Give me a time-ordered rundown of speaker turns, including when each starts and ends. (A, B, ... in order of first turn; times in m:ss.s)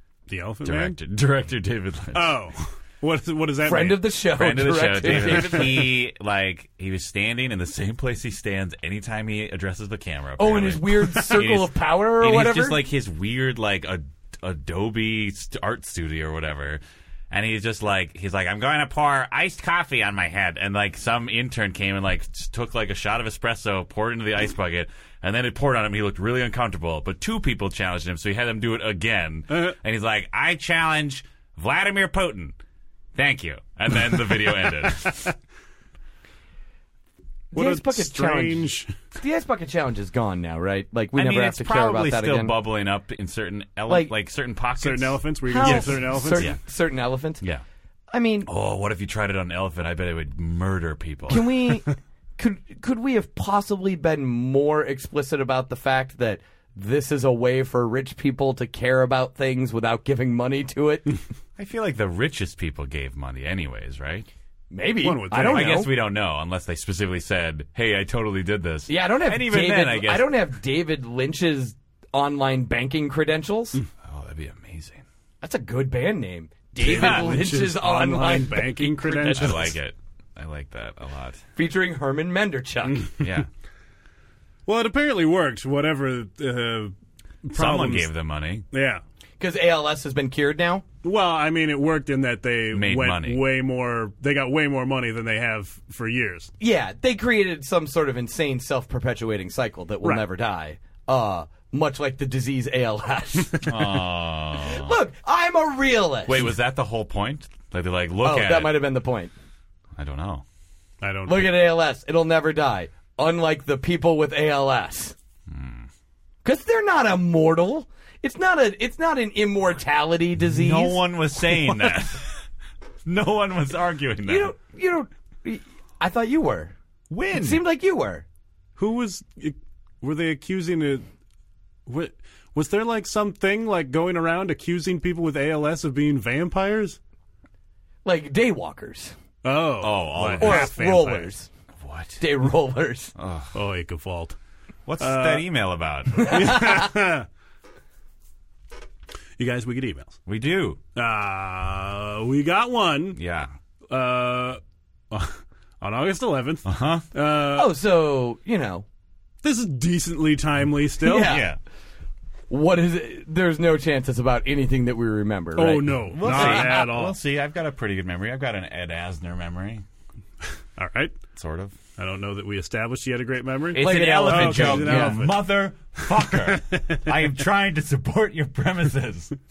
0:00.3-0:01.0 A
0:00.6-0:02.4 B
0:02.1-0:04.0 A
0:03.6-0:05.9 C
0:04.4-0:32.6 B
0:05.1-0:05.6 A
0:10.4-0:12.8 C
0:33.1-0:35.3 B
0:37.5-0:38.9 A
0:37.5-0:42.5 C
0:41.1-0:46.6 B
0:44.8-0:46.5 A
0:45.5-0:47.4 C
0:48.1-0:48.5 C
0:48.4-0:51.5 B
0:51.3-1:01.2 C
1:01.6-1:04.3 B
1:04.7-1:05.9 C
1:05.0-1:05.9 A
1:05.4-1:10.3 B
1:08.9-1:13.8 C
1:14.0-1:15.0 B
1:15.4-1:19.7 C
1:16.8-1:19.8 A
1:19.3-1:21.4 B
1:21.6-1:23.1 C
1:23.2-1:23.5 B
1:24.6-1:28.1 A
1:27.5-1:28.6 B
1:28.7-1:29.0 A
1:29.4-1:30.8 C
1:31.0-1:36.5 A
1:32.7-1:33.4 B
1:36.6-1:46.5 C
1:43.6-1:44.9 B
1:46.2-1:48.8 B
1:48.2-1:49.3 C
1:50.0-1:50.4 B
1:51.0-1:51.5 A
1:51.2-1:55.1 C
1:55.5-1:55.9 B
1:56.4-2:01.0 C
2:00.4-2:02.4 B
2:03.0-2:04.5 B
2:04.2-2:06.7 C
2:07.1-2:07.6 B
2:07.3-2:08.2 C
2:08.8-2:11.0 A
2:11.8-2:17.0 A
2:18.0-2:19.1 C
2:19.4-2:21.3 A
2:19.8-2:20.7 B
2:20.4-2:21.5 C
2:21.8-2:22.2 B
2:22.2-2:23.1 C
2:23.2-2:23.6 B
2:23.5-2:24.4 A
2:24.9-2:26.4 B
2:25.0-2:25.4 A
2:26.2-2:26.9 C
2:26.2-2:27.3 A
2:29.4-2:30.2 A
2:30.2-2:30.8 B
2:30.9-2:33.2 A
2:33.1-2:33.5 B
2:33.9-2:37.8 A
2:36.6-2:37.0 B
2:37.5-2:38.8 C
2:39.4-2:41.4 A
2:41.0-2:41.5 C
2:41.2-2:41.6 B
2:42.5-2:46.8 C
2:45.6-2:47.2 A
2:46.1-2:49.8 B
2:50.8-2:51.2 A
2:51.3-2:51.8 B
2:52.0-2:55.4 A
2:53.7-2:59.3 B
2:53.8-2:55.3 C